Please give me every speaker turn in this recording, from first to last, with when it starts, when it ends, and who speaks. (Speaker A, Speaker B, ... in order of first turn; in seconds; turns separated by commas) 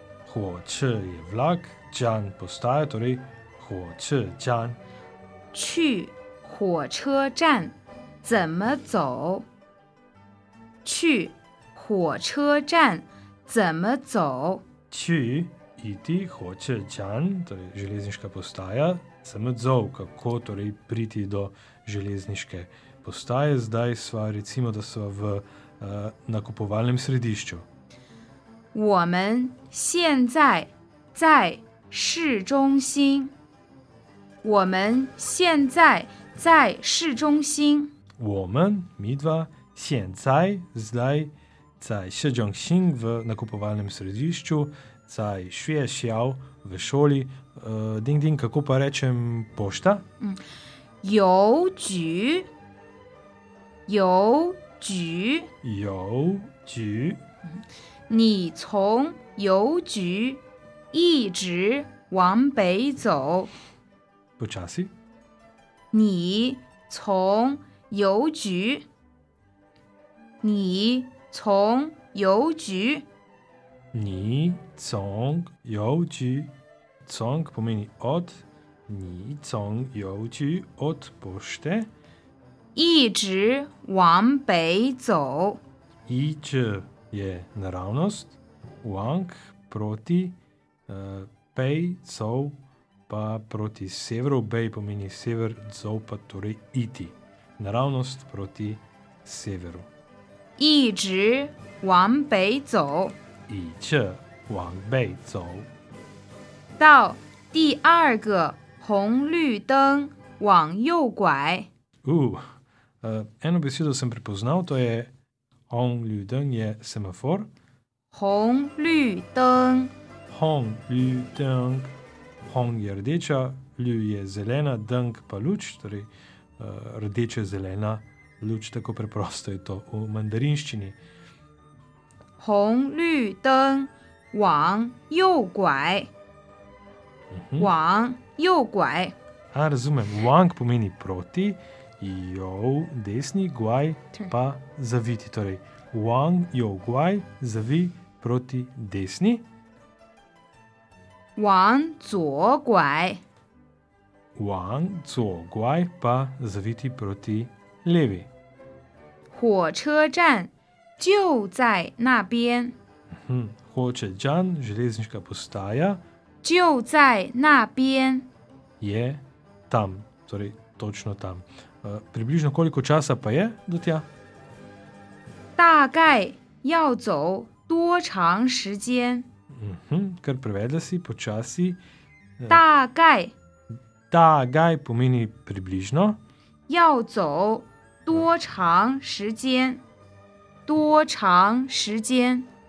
Speaker A: 0.3-4.8, Speaker B: 5.5-9.5, Speaker B: 10.8-14.7, Speaker A: 14.9-27.6, Speaker B: 28.7-33.3, Speaker B: 34.4-37.9, Speaker A: 38.2-50.1, Speaker B: 51.0-52.5, Speaker B: 53.9-55.5, Speaker A: 55.6-57.2, Speaker B: 58.1-63.5, Speaker A: 64.4-64.9, Speaker B: 65.9-68.9, Speaker B: 70.4-73.1, Speaker A: 73.9-76.5, Speaker A: 77.0-81.9, Speaker B: 82.8-85.6, Speaker A: 86.1-90.4, Speaker A: 90.9-99.9, Speaker B: 100.6-103.2, Speaker A: 103.5-105.7, Speaker B: 106.8-111.7, Speaker A: 112.0-115.1, Speaker A: 115.7-117.5, Speaker B: 118.1-119.9, Speaker A: 120.3-131.0, Speaker B: 132.4-136.1, Speaker A: 137.3-137.7, Speaker B: 137.6-139.2, Speaker A: 139.5-149.5, Speaker B: 151.4-153.2, Speaker A: 154.3-158.3, Speaker B: 159.3-162.8, Speaker A: 163.1-166.0, Speaker B: 166.4-168.3, Speaker A: 168.8-174.1, Speaker B: 175.6-179.3, Speaker A: 179.5-181.8, Speaker A: 182.4-182.6, Speaker B: 182.5-183.3, Speaker A: 184.1-186.2, Speaker B: 186.7-189.8, Speaker B: 190.7-192.5